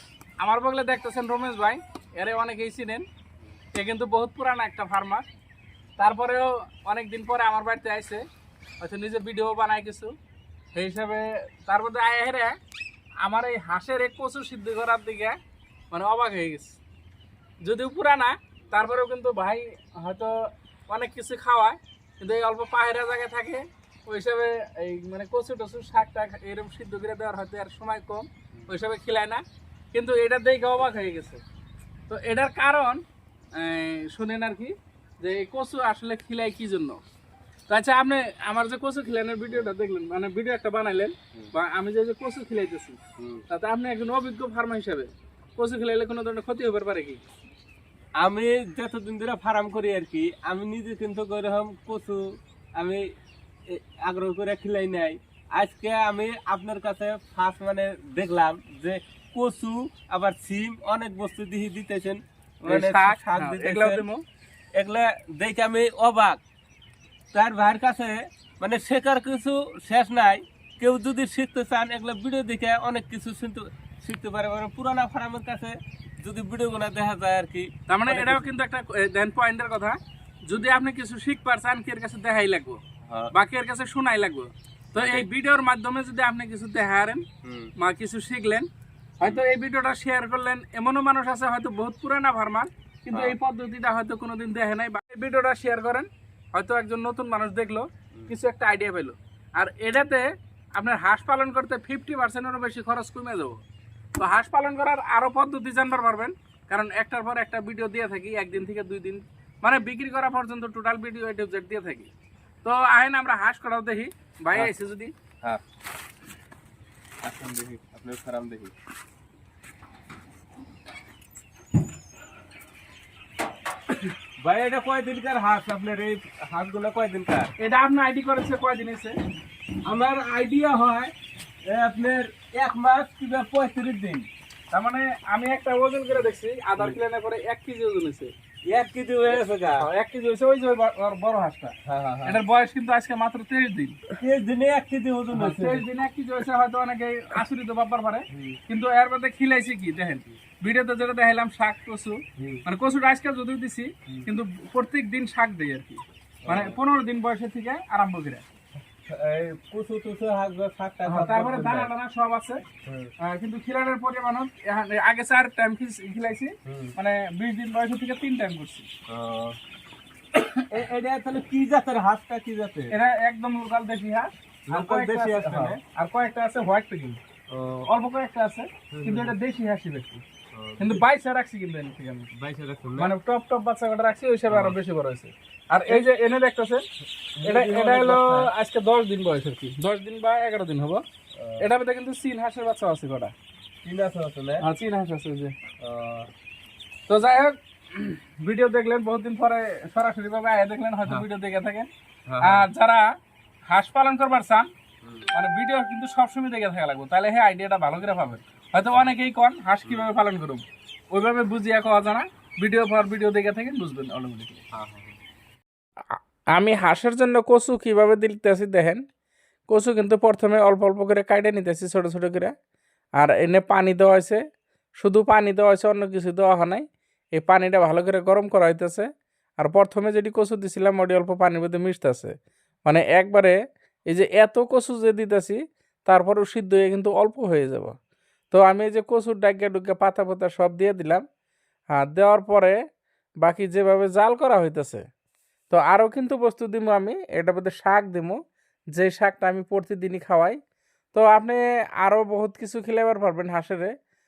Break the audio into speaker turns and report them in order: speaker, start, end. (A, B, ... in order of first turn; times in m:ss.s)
0:00.4-0:03.0 A
0:03.7-0:05.2 A
0:06.0-0:08.2 A
0:08.8-0:10.1 A
0:10.7-0:12.6 A
0:13.2-0:15.4 A
0:15.9-0:16.8 A
0:17.6-0:29.4 A
0:29.9-0:31.4 A
0:32.1-0:33.0 A
0:33.5-0:37.0 A
0:37.7-0:47.2 A
0:39.5-0:39.7 B
0:43.2-0:43.4 B
0:48.2-0:52.2 B
0:52.8-0:53.0 B
0:53.7-1:04.0 B
1:02.6-1:04.2 A
1:04.7-1:06.4 B
1:07.3-1:18.4 B
1:17.9-1:22.8 A
1:23.1-1:23.3 B
1:23.3-1:27.2 A
1:24.9-1:25.2 B
1:27.4-1:27.7 B
1:27.8-1:28.7 A
1:29.2-1:43.6 A
1:33.1-1:33.4 B
1:44.2-1:52.1 A
1:52.6-1:55.1 A
1:57.2-1:58.7 B
2:04.4-2:07.5 B
2:07.6-2:09.2 A
2:09.8-2:11.1 B
2:11.6-2:14.3 B
2:14.7-2:18.3 A
2:16.1-2:17.0 B
2:18.6-2:19.8 B
2:19.8-2:24.0 A
2:21.8-2:22.4 B
2:24.1-2:25.8 B
2:25.3-2:38.4 A
2:28.3-2:28.6 B
2:32.4-2:32.6 B
2:36.4-2:36.8 B
2:39.0-2:41.9 B
2:41.1-2:42.6 A
2:42.8-2:43.1 B
2:43.2-2:48.9 A
2:46.6-2:46.9 B
2:49.1-2:49.6 B
2:50.7-2:52.9 B
2:52.9-2:57.2 A
2:54.7-2:55.8 B
2:57.5-2:57.8 B
2:57.8-3:00.2 A
2:58.9-2:59.4 B
3:00.5-3:01.0 B
3:00.8-3:02.3 A
3:02.3-3:03.1 B
3:03.0-3:06.8 A
3:04.5-3:04.8 B
3:07.4-3:08.5 B
3:07.4-3:11.0 A
3:11.3-3:11.7 B
3:11.6-3:13.3 A
3:13.8-3:14.6 B
3:14.6-3:15.5 A
3:15.8-3:16.3 B
3:17.1-3:21.9 A
3:22.3-3:22.7 B
3:22.4-3:23.1 A
3:23.7-3:24.7 A
3:25.0-3:25.3 B
3:25.3-3:34.6 A
3:29.8-3:30.1 B
3:34.7-3:35.2 B
3:36.1-3:39.0 A
3:39.7-3:42.5 A
3:43.2-3:44.4 A
3:45.0-3:52.3 A
3:52.8-3:53.6 A
3:54.1-3:57.9 A
3:58.5-4:01.2 A
4:01.9-4:02.8 A
4:03.4-4:05.0 A
4:05.7-4:08.4 A
4:08.9-4:10.6 A
4:11.1-4:13.9 A